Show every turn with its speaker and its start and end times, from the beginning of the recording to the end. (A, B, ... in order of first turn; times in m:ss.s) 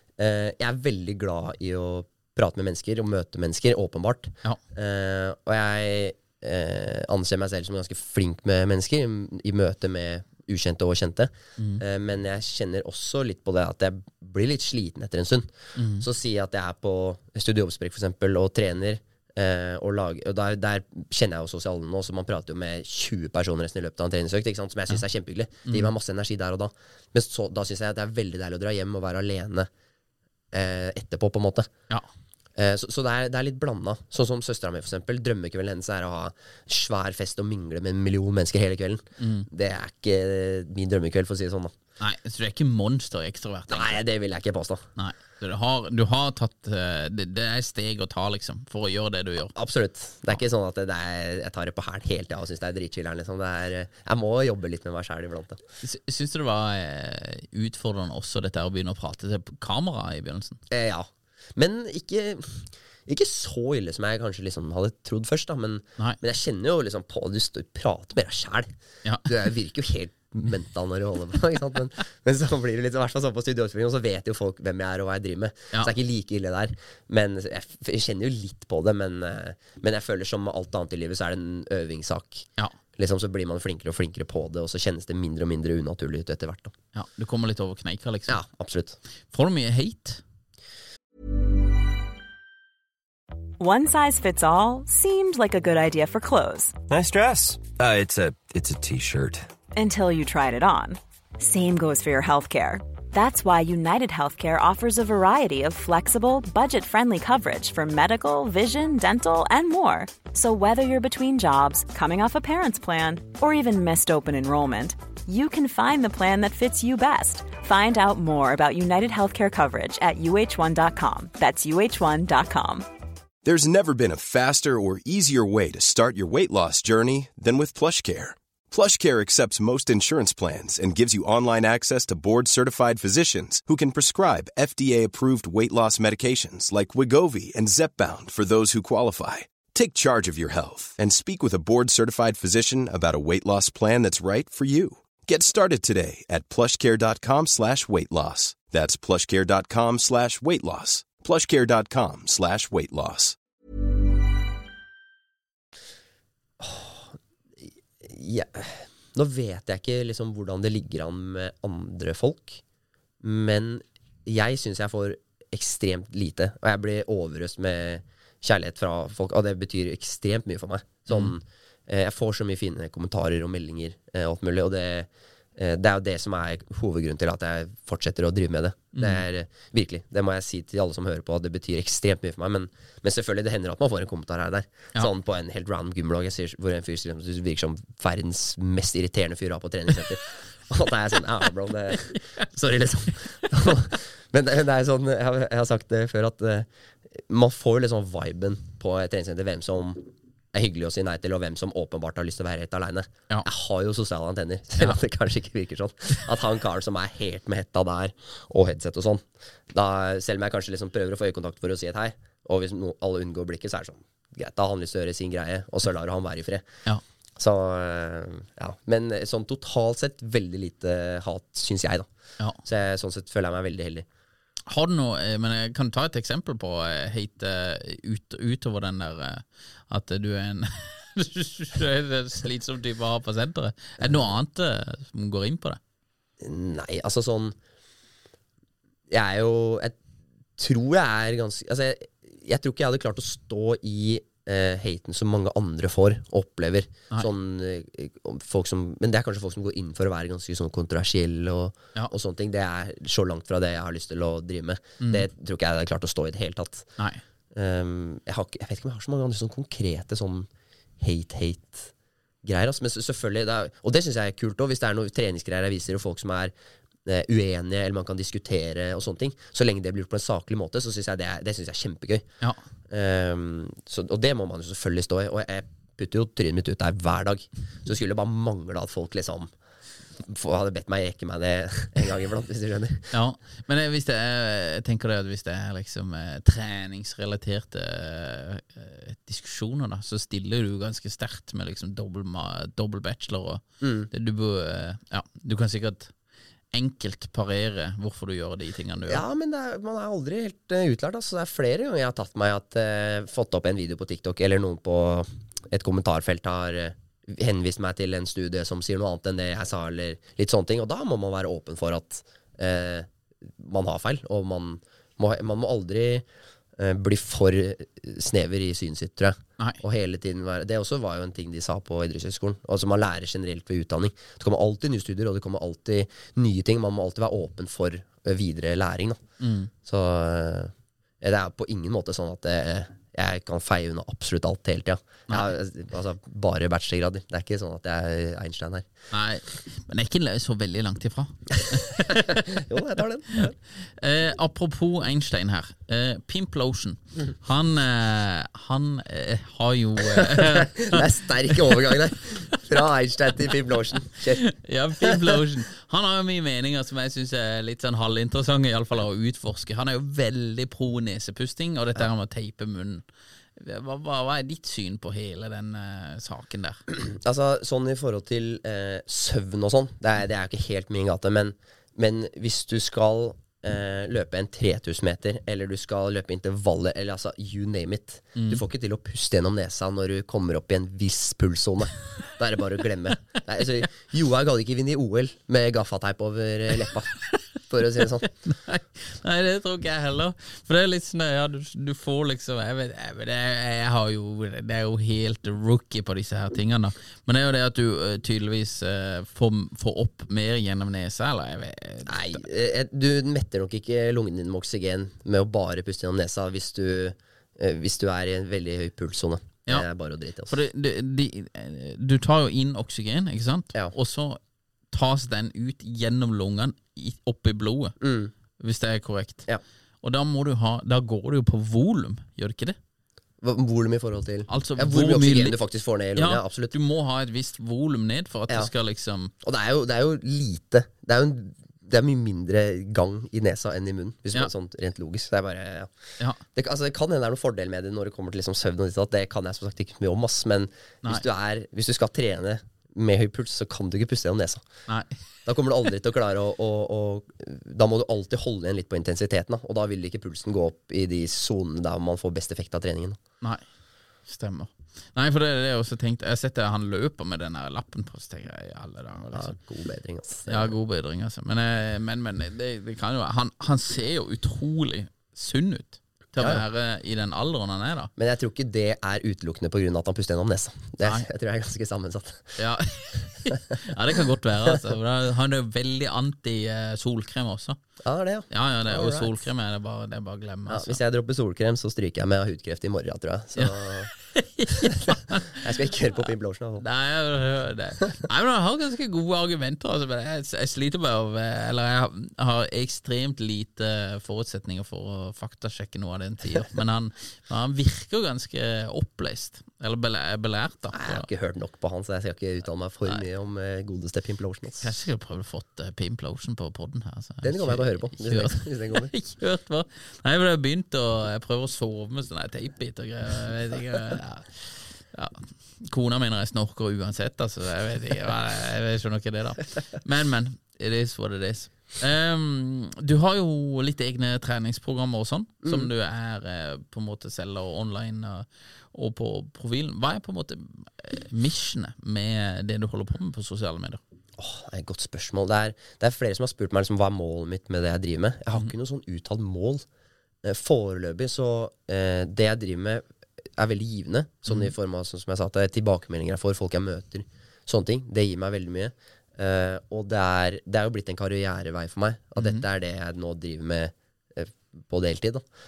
0:00.2-0:15.5 A
0:11.6-0:11.8 B
0:15.8-0:16.0 B
0:16.0-0:29.7 A
0:25.7-0:25.9 B
0:30.5-0:31.7 A
0:32.6-0:41.7 A
0:39.2-0:39.5 B
0:42.0-0:44.0 B
0:43.7-0:44.8 A
0:45.0-0:49.5 B
0:49.6-0:55.6 A
0:55.8-1:00.6 B
1:00.7-1:08.7 A
1:09.2-1:26.7 A
1:26.9-1:28.4 B
1:28.3-1:29.0 A
1:29.3-1:30.2 B
1:33.6-1:36.8 C
1:36.9-1:39.5 D
1:39.8-2:02.9 C
2:03.4-2:33.4 E
2:36.6-2:37.2 A
2:38.0-2:42.6 A
2:43.2-3:36.7 A
2:59.0-2:59.2 B
3:37.4-3:42.1 A
3:42.6-3:44.1 A
3:44.7-3:55.8 B
3:56.4-3:57.6 A
3:59.1-4:00.0 A
4:00.6-4:16.9 A
4:15.0-4:15.3 B
4:17.5-4:20.5 A
4:21.0-4:21.9 A
4:22.4-4:26.5 A
4:27.0-4:32.3 A
4:32.9-4:39.5 A
4:40.2-4:43.1 A
4:43.1-4:56.1 B
4:53.8-4:54.1 A
4:56.7-4:59.2 B
4:59.1-5:13.1 A
5:13.6-5:16.2 A
5:16.8-5:29.2 A
5:29.4-5:29.7 B
5:29.8-5:38.9 A
5:39.1-5:42.6 B
5:42.1-5:43.6 A
5:43.4-5:52.0 B
5:50.1-5:54.5 A
5:54.4-6:06.8 B
5:55.0-5:55.3 A
6:06.9-6:27.1 A
6:18.4-6:18.6 B
6:27.7-6:28.3 A
6:28.2-6:42.4 B
6:42.1-6:50.5 A
6:50.5-6:54.4 B
6:54.9-6:58.0 B
6:58.0-6:58.3 A
6:58.6-6:59.5 B
7:00.0-7:02.8 B
7:03.4-7:06.8 A
7:04.5-7:05.6 B
7:06.2-7:09.3 B
7:09.4-7:15.9 A
7:16.5-7:24.6 A
7:24.9-7:25.2 B
7:25.4-7:33.2 A
7:34.3-7:39.6 B
7:39.3-7:40.7 A
7:40.5-7:48.1 B
7:46.4-7:46.6 A
7:48.2-7:52.6 A
7:52.6-7:57.8 B
7:58.0-7:59.4 A
7:58.5-8:01.0 B
8:00.7-8:04.1 A
8:03.6-8:05.6 B
8:05.1-8:06.8 A
8:06.8-8:21.3 B
8:20.9-8:24.9 A
8:24.8-8:54.0 B
8:27.4-8:29.1 A
8:54.4-8:59.8 A
9:00.4-9:03.0 A
9:03.6-9:15.4 A
9:04.5-9:04.7 B
9:12.4-9:12.6 B